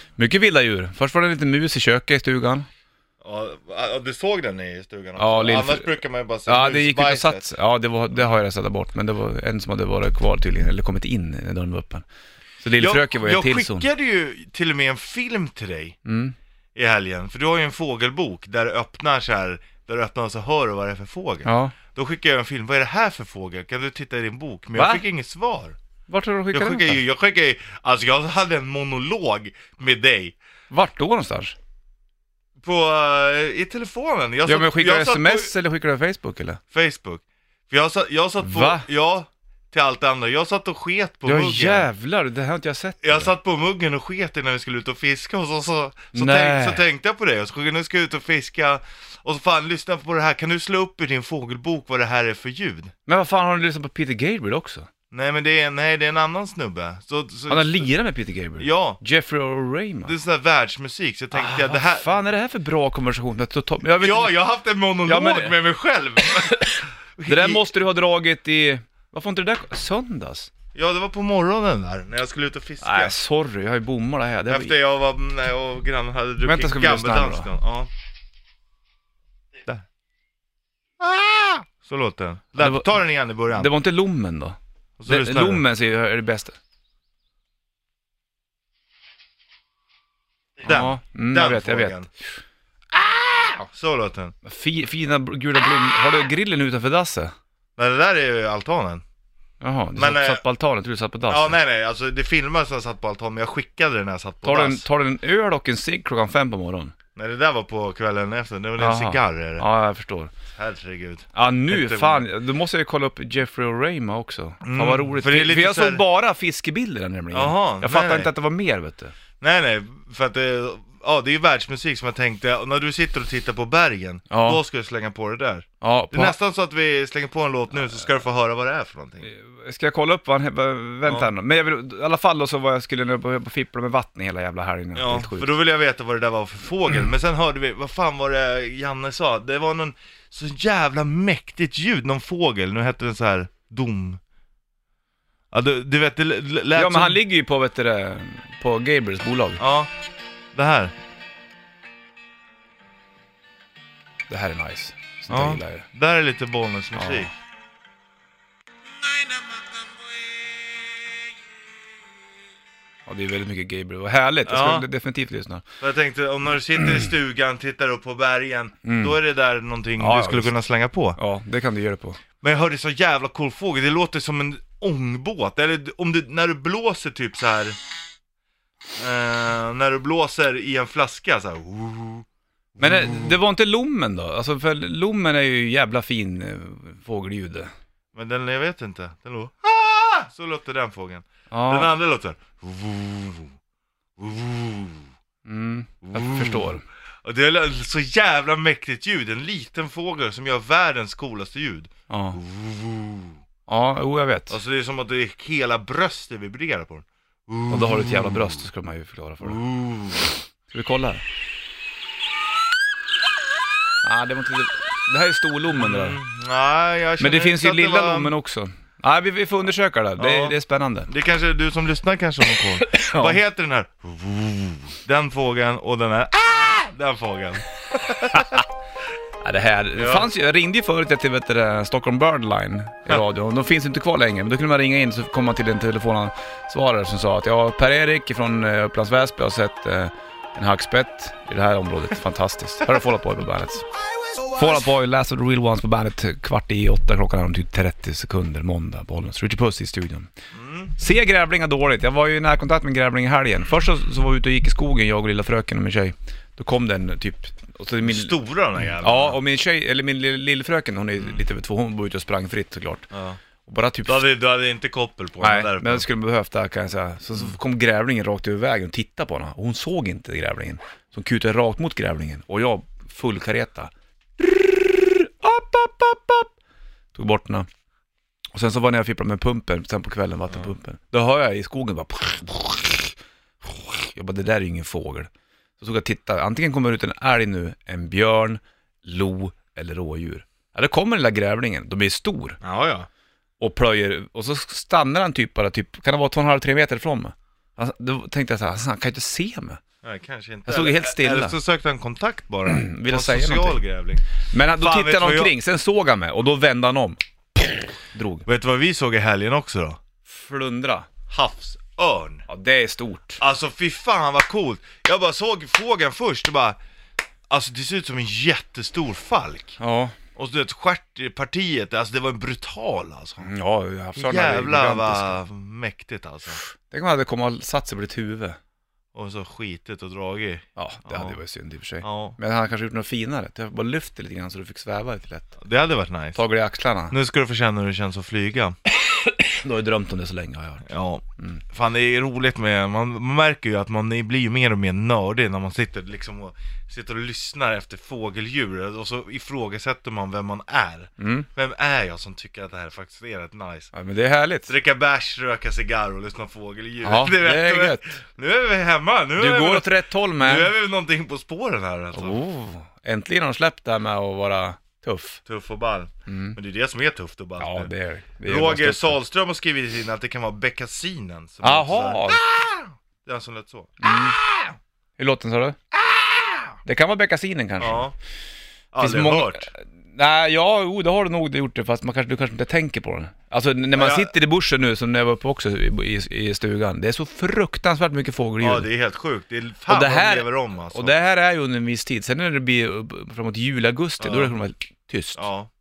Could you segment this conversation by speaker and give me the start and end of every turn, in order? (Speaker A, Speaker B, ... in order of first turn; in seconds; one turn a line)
Speaker A: 0.2-2.7
Speaker B: 3.2-7.5
Speaker A: 5.2-12.1
Speaker A: 12.6-13.9
Speaker B: 12.8-15.9
Speaker A: 16.0-16.3
Speaker B: 16.7-25.8
Speaker A: 21.4-21.7
Speaker A: 24.7-25.0
Speaker A: 26.1-27.0
Speaker B: 26.5-30.4
Speaker A: 30.7-31.6
Speaker B: 32.6-35.5
Speaker A: 34.4-36.6
Speaker B: 36.7-41.9
Speaker A: 38.4-38.8
Speaker A: 41.2-43.3
Speaker B: 43.0-52.9
Speaker A: 46.1-46.8
Speaker A: 53.1-54.9
Speaker B: 55.1-57.9
Speaker A: 57.5-60.1
Speaker B: 58.6-59.0
Speaker B: 60.0-62.1
Speaker A: 61.3-64.3
Speaker B: 64.0-67.7
Speaker A: 65.1-65.6
Speaker A: 67.3-70.5
Speaker B: 70.7-73.2
Speaker A: 72.8-74.7
Speaker B: 74.5-77.9
Speaker A: 76.4-77.5
Speaker B: 81.0-83.7
Speaker A: 82.6-83.0
Speaker A: 83.5-86.5
Speaker B: 85.0-85.6
Speaker B: 90.6-92.1
Speaker A: 90.6-92.0
Speaker B: 93.0-94.3
Speaker A: 94.4-97.3
Speaker B: 97.8-99.0
Speaker A: 99.6-101.6
Speaker B: 100.0-100.4
Speaker B: 101.3-104.8
Speaker A: 104.4-106.9
Speaker B: 107.2-109.6
Speaker A: 108.8-110.3
Speaker B: 110.5-112.3
Speaker A: 111.3-119.1
Speaker B: 114.6-116.0
Speaker B: 117.3-118.3
Speaker B: 119.4-129.3
Speaker A: 124.3-124.6
Speaker A: 125.8-126.3
Speaker A: 129.2-135.5
Speaker B: 131.0-131.3
Speaker B: 134.9-144.2
Speaker B: 145.5-147.2
Speaker A: 146.7-149.6
Speaker B: 149.6-149.9
Speaker B: 150.5-150.9
Speaker A: 154.3-155.8
Speaker B: 155.3-157.3
Speaker A: 156.9-157.3
Speaker A: 163.1-165.6
Speaker B: 164.4-164.8
Speaker B: 165.8-171.2
Speaker A: 166.8-167.1
Speaker A: 168.8-169.2
Speaker A: 170.0-170.5
Speaker A: 171.2-172.2
Speaker B: 172.4-177.8
Speaker B: 179.0-183.3
Speaker A: 182.8-187.7
Speaker B: 188.1-193.5
Speaker A: 191.5-191.9
Speaker B: 194.2-195.1
Speaker A: 195.4-196.8
Speaker B: 196.0-203.4
Speaker A: 202.1-202.4
Speaker A: 203.7-204.6
Speaker B: 204.5-208.6
Speaker A: 207.7-209.6
Speaker B: 209.4-210.4
Speaker A: 210.7-211.2
Speaker A: 214.0-216.2
Speaker B: 215.7-218.3
Speaker A: 217.2-221.1
Speaker B: 220.2-220.6
Speaker B: 221.1-228.6
Speaker A: 222.8-223.4
Speaker A: 229.4-243.8
Speaker B: 229.9-230.3
Speaker A: 244.5-250.3
Speaker B: 250.5-250.9
Speaker A: 251.0-258.4
Speaker B: 258.0-259.4
Speaker A: 259.0-263.1
Speaker B: 263.1-263.4
Speaker A: 263.6-264.3
Speaker B: 264.1-266.1
Speaker A: 265.4-276.5
Speaker A: 277.1-277.7
Speaker A: 278.5-292.6
Speaker B: 292.6-293.1
Speaker A: 293.6-299.8
Speaker B: 300.0-304.2
Speaker A: 300.6-301.6
Speaker A: 302.6-303.8
Speaker A: 304.5-308.4
Speaker B: 304.7-305.5
Speaker B: 308.4-310.0
Speaker A: 310.3-311.1
Speaker B: 311.3-312.4
Speaker A: 312.5-313.4
Speaker B: 313.4-316.8
Speaker B: 317.5-319.8
Speaker A: 319.8-320.1
Speaker B: 320.4-323.5
Speaker A: 323.4-325.4
Speaker B: 324.1-326.6
Speaker A: 326.8-328.6
Speaker B: 329.1-331.4
Speaker A: 330.8-335.6
Speaker B: 332.0-332.4
Speaker B: 335.6-336.4
Speaker A: 336.3-337.1
Speaker B: 337.1-338.7
Speaker A: 339.1-340.8
Speaker B: 340.9-353.9
Speaker A: 351.2-351.5
Speaker A: 353.9-354.7
Speaker B: 354.7-362.4
Speaker A: 357.0-358.1
Speaker A: 359.4-360.7
Speaker A: 362.1-365.4
Speaker B: 365.4-367.9
Speaker A: 366.3-366.6
Speaker A: 367.6-369.2
Speaker B: 368.4-374.7
Speaker A: 371.6-372.4
Speaker A: 374.0-374.4
Speaker A: 375.2-375.8
Speaker B: 376.1-376.6
Speaker A: 376.8-378.1
Speaker B: 377.8-378.1
Speaker B: 378.9-379.7
Speaker A: 379.0-388.9
Speaker B: 383.9-384.3
Speaker B: 388.6-391.1
Speaker A: 389.9-395.4
Speaker B: 394.2-394.5
Speaker B: 395.4-395.7